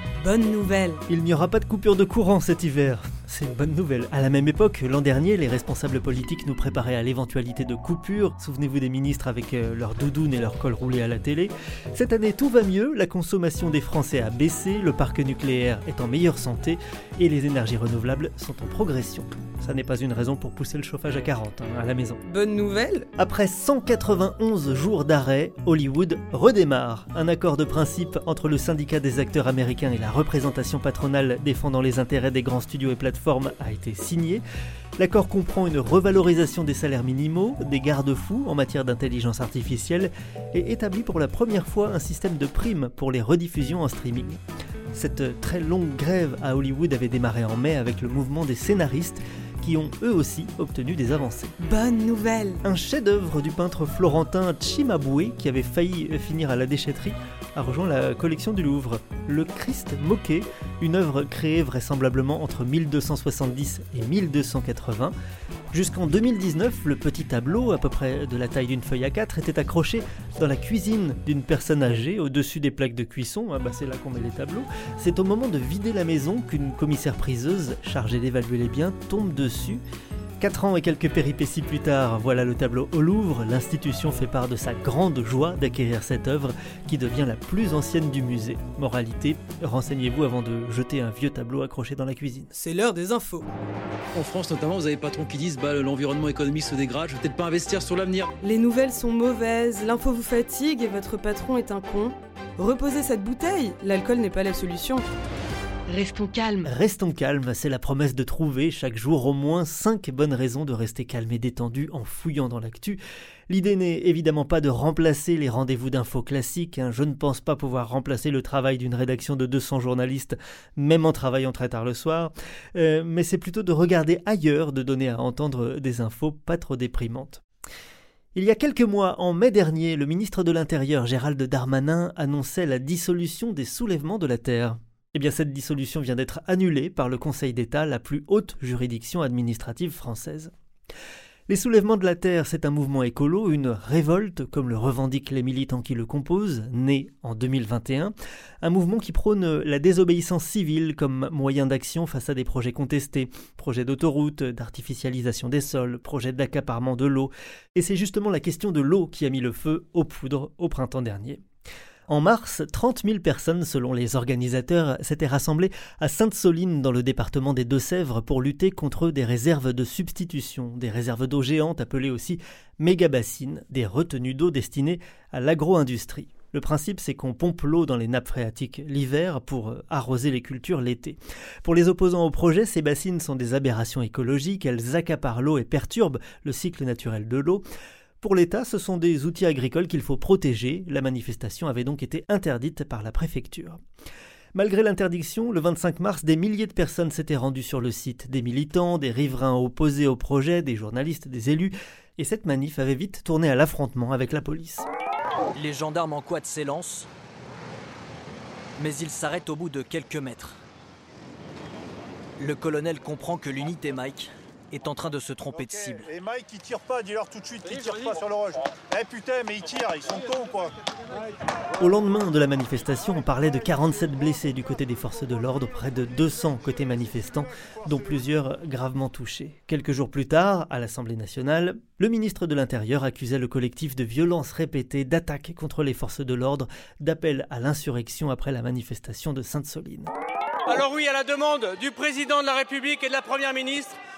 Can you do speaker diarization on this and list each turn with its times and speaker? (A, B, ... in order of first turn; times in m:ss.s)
0:00.2-0:01.0 A
0:01.1-0:22.2 B
0:22.3-0:23.1 A
0:23.2-0:34.4 B
0:35.0-0:44.4 B
0:44.9-0:51.5 B
0:51.6-0:52.6 A
0:52.6-1:05.1 B
1:05.7-1:19.8 B
1:20.4-1:32.5 B
1:32.5-1:33.4 A
1:34.1-1:38.3 C
1:38.4-1:45.0 A
1:45.9-1:46.7 A
1:46.6-1:53.0 B
1:53.5-2:07.4 B
2:08.3-2:20.5 B
2:21.5-2:41.4 B
2:42.1-3:07.6 B
3:08.2-3:13.8 B
3:14.5-3:24.9 B
3:25.5-3:27.1 D
3:28.8-3:30.6 D
3:32.4-3:36.1 D
3:35.5-3:40.7 E
3:41.8-4:00.1 B
4:00.7-4:03.9 F